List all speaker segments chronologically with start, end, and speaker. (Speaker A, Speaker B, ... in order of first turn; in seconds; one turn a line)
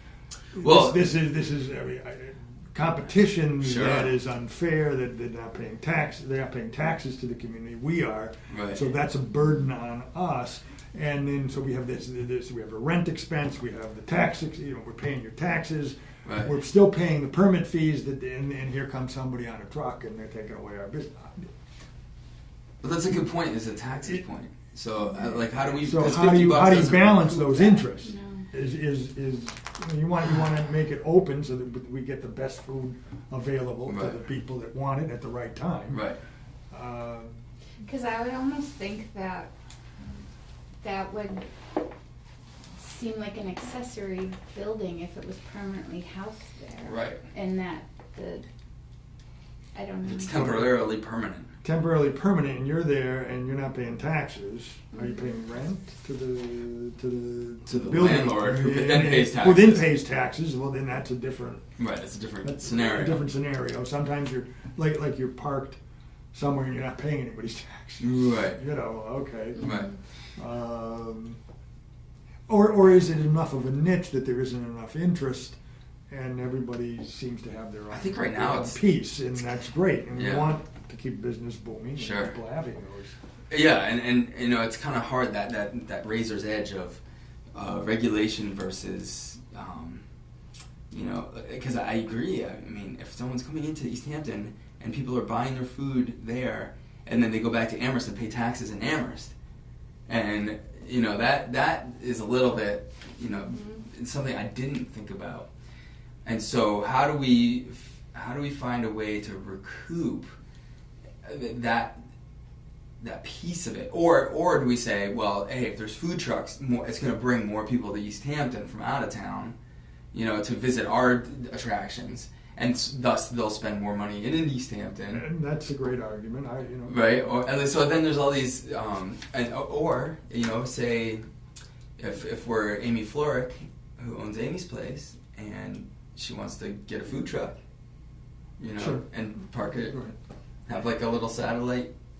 Speaker A: 0.5-21.5
Speaker B: 0.6-1.1
Speaker B: 3.6-4.1
Speaker B: 8.5-8.9
Speaker B: 16.2-16.5
Speaker B: 22.8-27.9
Speaker A: 25.8-36.0
Speaker C: 28.0-28.4
Speaker B: 33.9-34.2
Speaker B: 35.9-36.2
Speaker A: 36.7-37.3
Speaker C: 37.8-39.5
Speaker C: 40.8-41.4
Speaker C: 42.8-48.4
Speaker B: 46.8-47.2
Speaker C: 49.7-50.3
Speaker B: 50.0-51.5
Speaker A: 50.3-50.9
Speaker A: 51.6-61.7
Speaker C: 54.9-55.2
Speaker B: 57.7-59.9
Speaker B: 61.8-63.3
Speaker A: 62.4-65.8
Speaker A: 66.3-69.8
Speaker B: 68.0-68.6
Speaker B: 69.6-69.9
Speaker C: 69.6-69.9
Speaker A: 70.3-71.4
Speaker A: 72.5-75.6
Speaker A: 76.1-83.2
Speaker B: 77.9-78.8
Speaker B: 80.1-80.6
Speaker B: 82.0-82.4
Speaker B: 83.5-87.0
Speaker B: 87.5-90.0
Speaker B: 90.9-99.3
Speaker B: 100.1-105.5
Speaker B: 106.2-110.3
Speaker B: 111.2-112.0
Speaker B: 113.0-119.5
Speaker B: 120.1-125.2
Speaker A: 125.1-127.1
Speaker B: 126.9-131.2
Speaker B: 132.0-137.6
Speaker B: 138.6-140.0
Speaker A: 138.8-139.0
Speaker A: 139.9-140.2
Speaker B: 140.7-141.9